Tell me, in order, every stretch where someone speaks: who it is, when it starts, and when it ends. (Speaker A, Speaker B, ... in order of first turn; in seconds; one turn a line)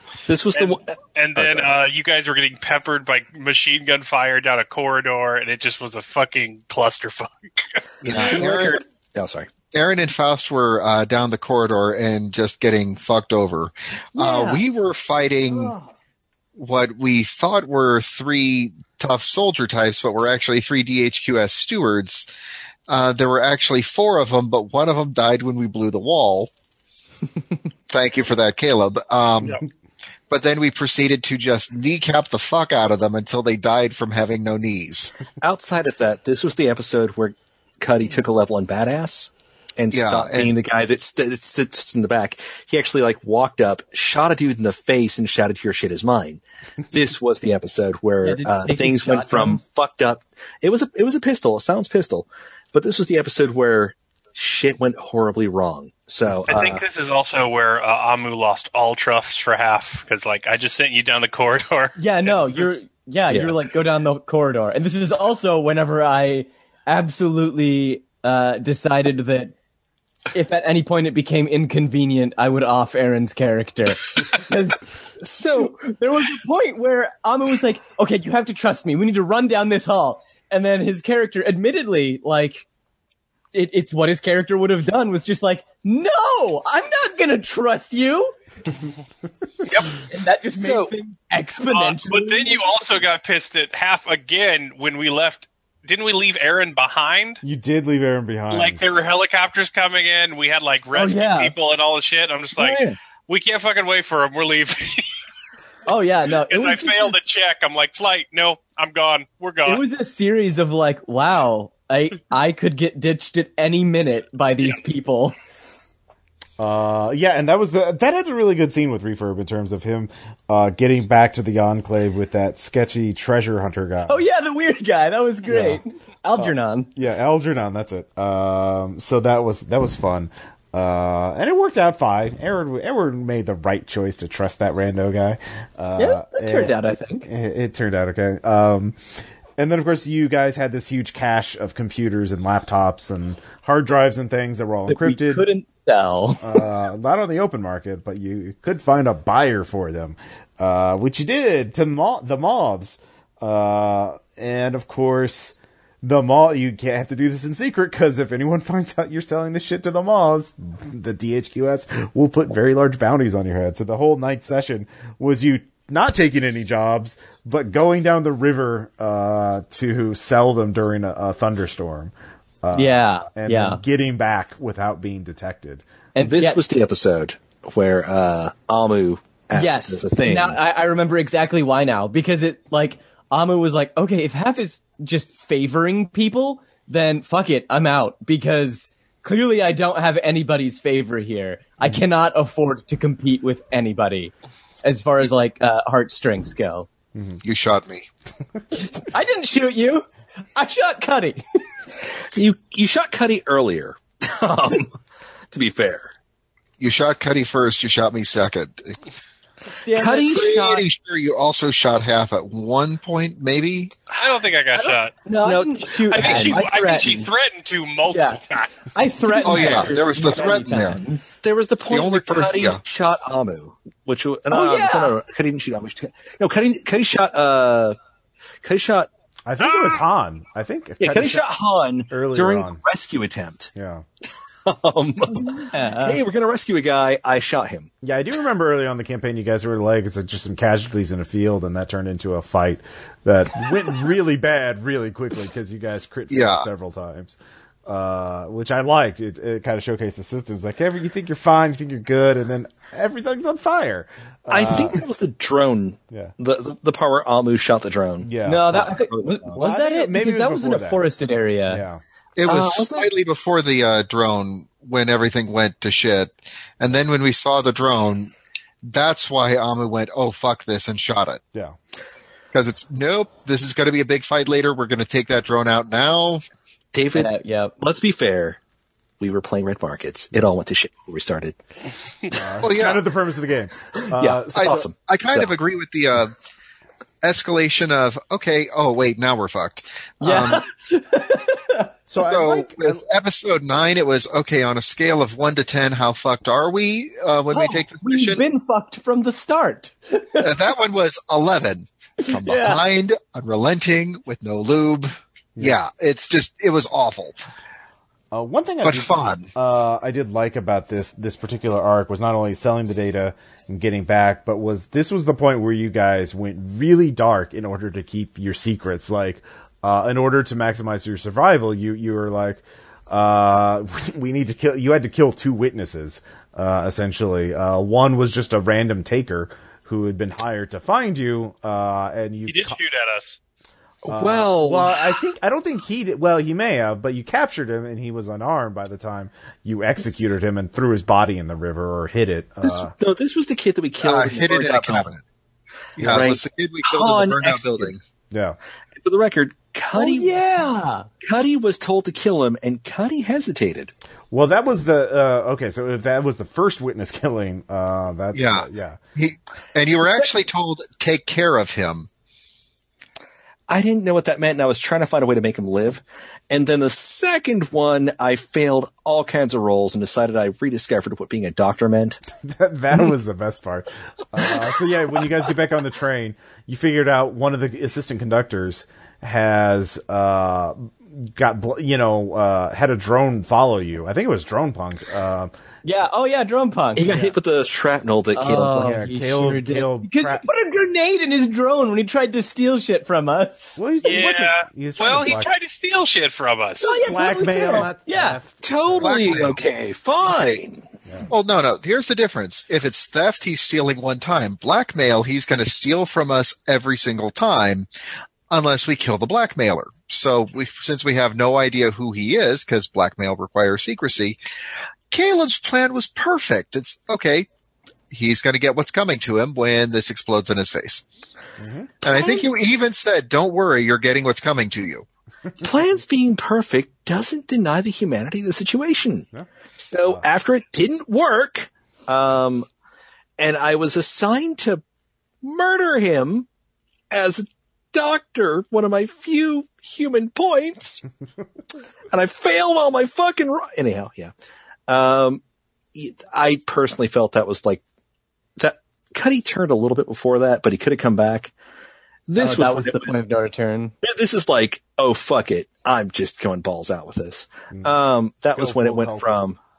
Speaker A: 0.2-1.7
Speaker B: 0.5-8.2
Speaker C: 8.0-8.8
Speaker A: 8.2-9.5
Speaker C: 9.7-15.7
Speaker D: 14.2-14.6
Speaker D: 15.5-15.8
Speaker C: 16.6-22.3
Speaker C: 22.9-26.5
Speaker C: 27.9-29.6
Speaker C: 30.3-35.1
Speaker A: 35.4-56.8
Speaker C: 39.9-40.5
Speaker D: 48.2-49.6
Speaker B: 56.5-62.7
Speaker D: 62.0-69.5
Speaker A: 63.3-63.6
Speaker D: 70.3-74.9
Speaker A: 75.2-75.8
Speaker D: 75.5-82.6
Speaker D: 83.5-88.3
Speaker A: 89.7-90.0
Speaker D: 89.9-92.6
Speaker A: 90.5-90.9
Speaker B: 91.7-97.4
Speaker E: 97.4-98.8
Speaker B: 98.5-105.1
Speaker D: 100.9-101.5
Speaker D: 102.6-102.9
Speaker D: 105.8-107.2
Speaker B: 106.2-109.8
Speaker D: 109.7-115.3
Speaker E: 116.6-124.2
Speaker D: 124.1-126.9
Speaker E: 125.5-125.8
Speaker E: 126.3-136.7
Speaker D: 136.0-137.3
Speaker E: 137.2-145.4
Speaker D: 144.9-146.5
Speaker E: 146.4-175.8
Speaker D: 172.7-173.8
Speaker D: 176.1-176.6
Speaker A: 176.2-180.6
Speaker D: 179.5-196.9
Speaker E: 197.1-197.4
Speaker C: 197.4-198.1
Speaker D: 198.8-201.4
Speaker A: 202.1-205.0
Speaker A: 205.5-206.1
Speaker C: 206.8-209.0
Speaker D: 209.8-210.8
Speaker A: 209.9-210.8
Speaker C: 210.4-213.9
Speaker B: 214.1-215.2
Speaker D: 214.8-217.3
Speaker A: 215.4-216.6
Speaker B: 216.1-219.3
Speaker D: 218.1-218.4
Speaker D: 218.9-221.4
Speaker C: 219.4-221.0
Speaker A: 221.4-227.9
Speaker C: 221.9-222.8
Speaker D: 224.5-225.2
Speaker A: 228.6-229.1
Speaker E: 229.5-231.4
Speaker A: 229.6-230.0
Speaker A: 231.0-233.7
Speaker E: 232.1-232.8
Speaker E: 233.7-234.0
Speaker A: 234.7-237.9
Speaker D: 235.3-236.2
Speaker E: 238.0-255.0
Speaker C: 246.3-246.7
Speaker A: 254.5-259.5
Speaker E: 258.2-259.0
Speaker D: 258.4-261.8
Speaker E: 259.5-261.0
Speaker E: 261.7-262.0
Speaker C: 262.4-271.4
Speaker A: 262.4-263.1
Speaker C: 272.5-276.4
Speaker A: 276.9-278.6
Speaker D: 277.1-277.7
Speaker A: 279.2-281.6
Speaker E: 282.3-284.9
Speaker C: 282.6-283.0
Speaker A: 283.9-285.5
Speaker C: 284.6-286.3
Speaker C: 287.2-290.6
Speaker D: 290.2-291.9
Speaker E: 292.1-293.0
Speaker C: 292.2-298.4
Speaker D: 297.5-300.6
Speaker C: 300.4-307.4
Speaker D: 302.2-302.8
Speaker E: 308.3-332.8
Speaker C: 308.8-309.5
Speaker B: 332.5-333.4
Speaker A: 334.0-335.2
Speaker E: 334.1-342.9
Speaker A: 342.6-345.1
Speaker C: 344.0-345.2
Speaker C: 346.0-348.0
Speaker A: 346.0-347.9
Speaker E: 348.3-348.6
Speaker A: 349.0-350.4
Speaker D: 349.9-351.1
Speaker A: 351.2-353.9
Speaker E: 354.3-359.0
Speaker C: 358.3-362.1
Speaker A: 363.7-372.2
Speaker E: 372.4-385.5
Speaker D: 385.8-387.1
Speaker A: 386.9-389.0
Speaker E: 387.1-387.3
Speaker D: 388.3-393.8
Speaker E: 388.6-390.4
Speaker E: 393.8-395.5
Speaker B: 394.0-397.0
Speaker D: 396.8-398.4
Speaker E: 397.0-399.5
Speaker A: 398.6-400.8
Speaker C: 399.0-399.6
Speaker C: 401.3-407.9
Speaker C: 408.5-414.4
Speaker C: 415.1-417.5
Speaker C: 418.1-421.0
Speaker E: 421.6-421.9
Speaker C: 422.0-425.1
Speaker A: 422.1-422.4
Speaker A: 425.6-429.3
Speaker A: 429.8-432.6
Speaker A: 433.4-434.8
Speaker A: 435.4-436.5
Speaker A: 437.1-441.0
Speaker A: 442.1-444.3
Speaker A: 444.9-445.4
Speaker A: 445.9-447.8
Speaker A: 448.6-451.5
Speaker A: 452.3-453.1
Speaker D: 452.4-453.9
Speaker A: 454.0-459.6
Speaker E: 458.6-459.5